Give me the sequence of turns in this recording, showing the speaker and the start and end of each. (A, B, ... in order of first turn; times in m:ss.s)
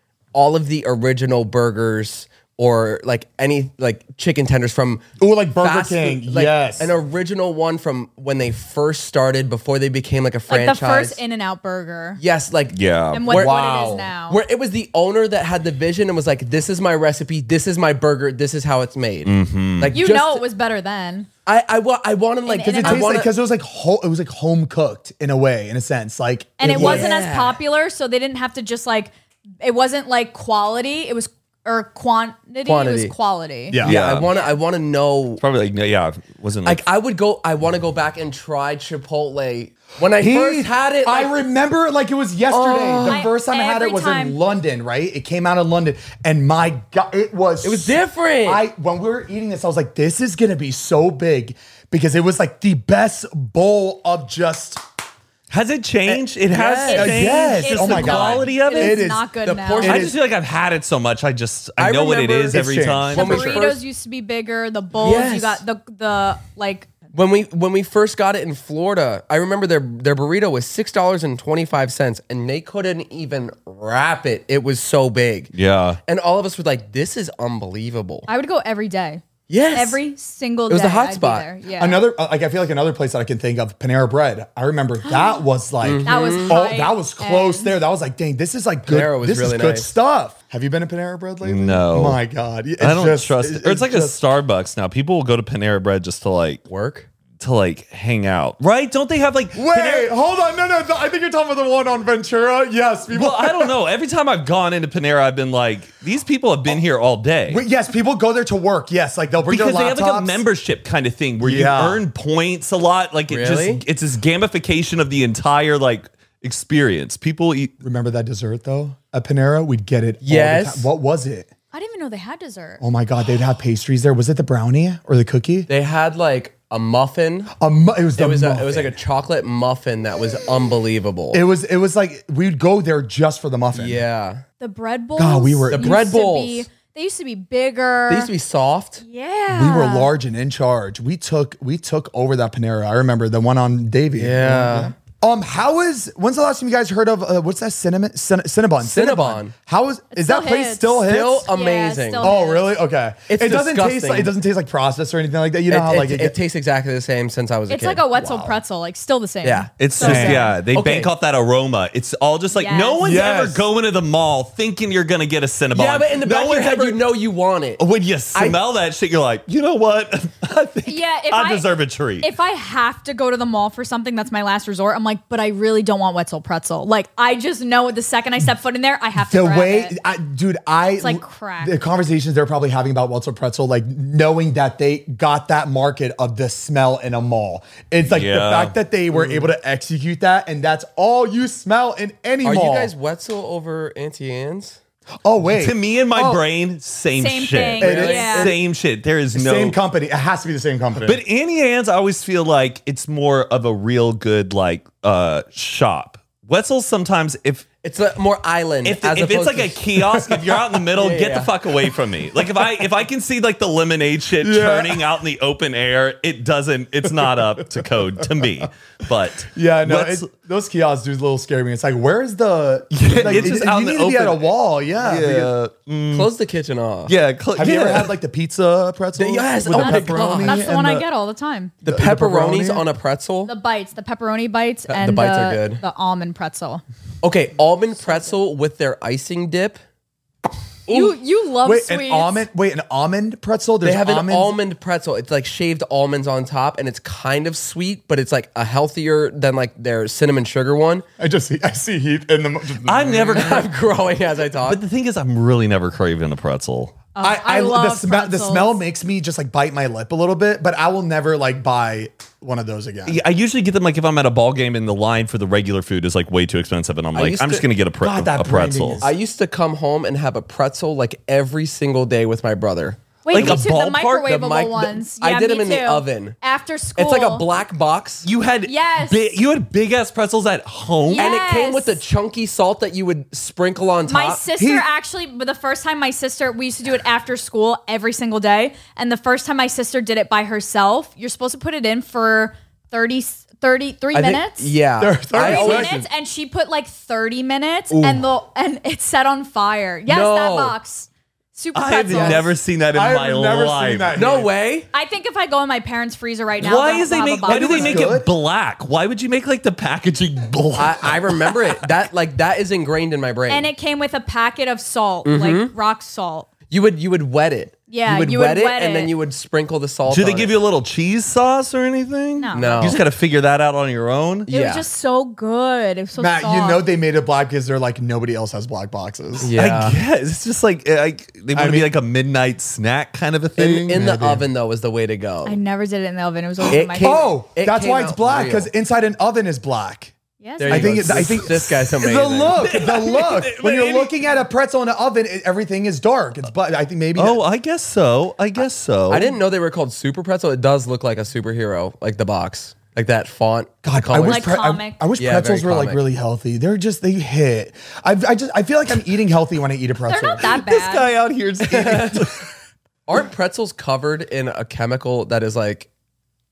0:00.3-0:05.1 A
0:05.2-0:06.9 B
0:05.6-0:11.2 A
0:10.5-0:12.2 C
0:12.2-0:13.6 A
0:12.7-0:13.3 D
0:13.1-0:14.4 C
0:13.3-0:14.1 B
0:14.3-0:20.4 A
0:19.2-0:20.0 D
0:19.9-0:21.3 C
0:21.5-0:23.3 A
0:22.5-0:23.1 C
0:22.8-0:27.1 B
0:26.6-0:34.6 C
0:26.6-0:27.6 A
0:32.6-0:33.2 A
0:33.7-0:34.0 B
0:33.8-0:35.4 A
0:33.8-0:34.3 D
0:35.4-0:36.8 D
0:36.6-0:41.3 A
0:40.2-0:54.8 B
0:42.5-0:43.3 A
0:43.1-0:44.4 C
0:47.6-0:48.6 A
0:55.5-0:59.1 D
0:56.5-0:57.2 A
0:56.9-1:00.1 C
0:56.9-1:00.2 B
0:59.8-1:03.6 D
1:01.8-1:03.8 A
1:02.5-1:03.3 B
1:03.1-1:06.9 C
1:05.0-1:05.6 A
1:07.1-1:15.5 A
1:15.5-1:16.0 D
1:16.1-1:18.3 A
1:18.3-1:22.0 C
1:19.5-1:20.0 A
1:20.7-1:21.5 A
1:21.8-1:34.2 B
1:25.1-1:25.4 C
1:25.8-1:26.7 A
1:26.1-1:27.7 C
1:28.8-1:29.9 A
1:31.4-1:32.2 D
1:32.8-1:36.6 D
1:36.7-1:37.1 A
1:37.4-1:40.1 D
1:39.5-1:43.7 B
1:43.1-1:47.6 D
1:47.5-1:50.4 B
1:49.5-1:57.7 D
1:51.4-1:52.0 B
1:53.3-1:53.8 A
1:57.8-2:01.5 B
2:00.2-2:00.9 A
2:01.7-2:02.8 C
2:02.8-2:05.7 B
2:05.7-2:07.5 A
2:07.6-2:09.0 B
2:08.2-2:11.4 A
2:11.3-2:14.0 B
2:13.7-2:14.4 A
2:14.6-2:18.3 C
2:15.2-2:16.0 B
2:15.7-2:16.7 A
2:18.1-2:19.0 A
2:19.0-2:20.1 C
2:19.5-2:31.5 B
2:24.2-2:24.9 A
2:28.8-2:29.5 A
2:30.1-2:32.7 C
2:31.0-2:32.3 A
2:32.2-2:36.4 B
2:33.3-2:34.3 A
2:35.7-2:38.0 A
2:37.7-2:40.6 C
2:38.1-2:38.6 B
2:39.4-2:41.1 A
2:39.8-2:47.0 D
2:40.0-2:40.4 B
2:42.5-2:43.1 C
2:43.0-2:43.6 B
2:45.7-2:47.8 A
2:47.8-2:52.3 D
2:50.8-2:51.7 C
2:52.2-2:59.9 C
2:59.2-3:12.9 B
3:01.0-3:01.8 C
3:08.1-3:08.8 D
3:09.1-3:09.5 A
3:12.4-3:14.8 A
3:15.2-3:16.4 B
3:15.6-3:19.8 D
3:17.2-3:18.5 C
3:17.8-3:18.6 B
3:17.8-3:18.4 A
3:19.3-3:21.2 B
3:21.0-3:27.7 D
3:27.8-3:29.8 A
3:28.8-3:40.3 D
3:30.3-3:30.5 B
3:31.0-3:31.6 A
3:34.4-3:35.1 B
3:37.0-3:38.4 B
3:39.5-3:45.5 B
3:42.9-3:46.3 D
3:43.2-3:43.5 A
3:46.1-3:47.1 A
3:47.1-3:48.1 D
3:47.6-3:51.1 B
3:49.2-3:50.7 A
3:49.7-3:51.7 C
3:51.8-3:53.5 A
3:51.8-3:52.8 B
3:53.5-3:56.8 C
3:54.9-3:55.8 A
3:57.2-3:59.8 A
4:00.9-4:01.2 A
4:00.9-4:02.4 C
4:01.6-4:04.6 B
4:03.8-4:11.0 A
4:11.2-4:13.5 B
4:12.8-4:13.7 D
4:13.3-4:14.8 A
4:14.6-4:16.9 D
4:17.2-4:18.8 C
4:17.2-4:23.2 B
4:23.1-4:29.1 D
4:27.2-4:27.6 A
4:28.0-4:29.2 B
4:29.0-4:33.7 A
4:33.2-4:37.5 C
4:33.3-4:34.3 D
4:34.2-4:36.4 A
4:37.0-4:38.3 A
4:38.2-4:41.4 D
4:38.7-4:39.3 C
4:41.0-4:42.0 C
4:41.2-4:44.4 A
4:44.1-4:54.8 C
4:44.6-4:44.9 B
4:54.1-4:56.1 A
4:55.0-4:56.0 B
4:55.4-5:02.5 C
4:57.9-4:58.2 A
5:00.1-5:00.8 A
5:01.7-5:04.2 D
5:02.1-5:02.5 A
5:02.9-5:04.5 B
5:04.1-5:04.9 A
5:04.9-5:08.1 C
5:06.6-5:11.7 D
5:07.4-5:08.3 B
5:10.8-5:13.7 A
5:13.5-5:16.5 C
5:15.2-5:15.7 A
5:16.7-5:20.6 A
5:17.9-5:19.1 C
5:20.1-5:24.5 D
5:22.4-5:23.0 C
5:22.5-5:23.0 A
5:24.5-5:26.8 C
5:24.5-5:24.9 A
5:26.2-5:29.5 B
5:29.4-5:30.0 A
5:29.6-5:34.1 D
5:31.5-5:31.9 B
5:33.6-5:35.6 A
5:33.9-5:34.4 B
5:35.5-5:37.3 C
5:36.7-5:38.7 A
5:36.7-5:40.1 B
5:40.4-5:41.0 C
5:40.6-5:42.7 A
5:40.7-5:47.4 B
5:41.0-5:41.7 D
5:42.6-5:44.1 D
5:47.2-5:49.3 D
5:49.1-5:54.6 A
5:53.8-6:00.5 B
5:54.2-5:55.0 C
5:55.2-5:56.0 A
6:00.1-6:01.1 C
6:00.4-6:02.5 D
6:01.6-6:02.3 A
6:03.1-6:05.9 A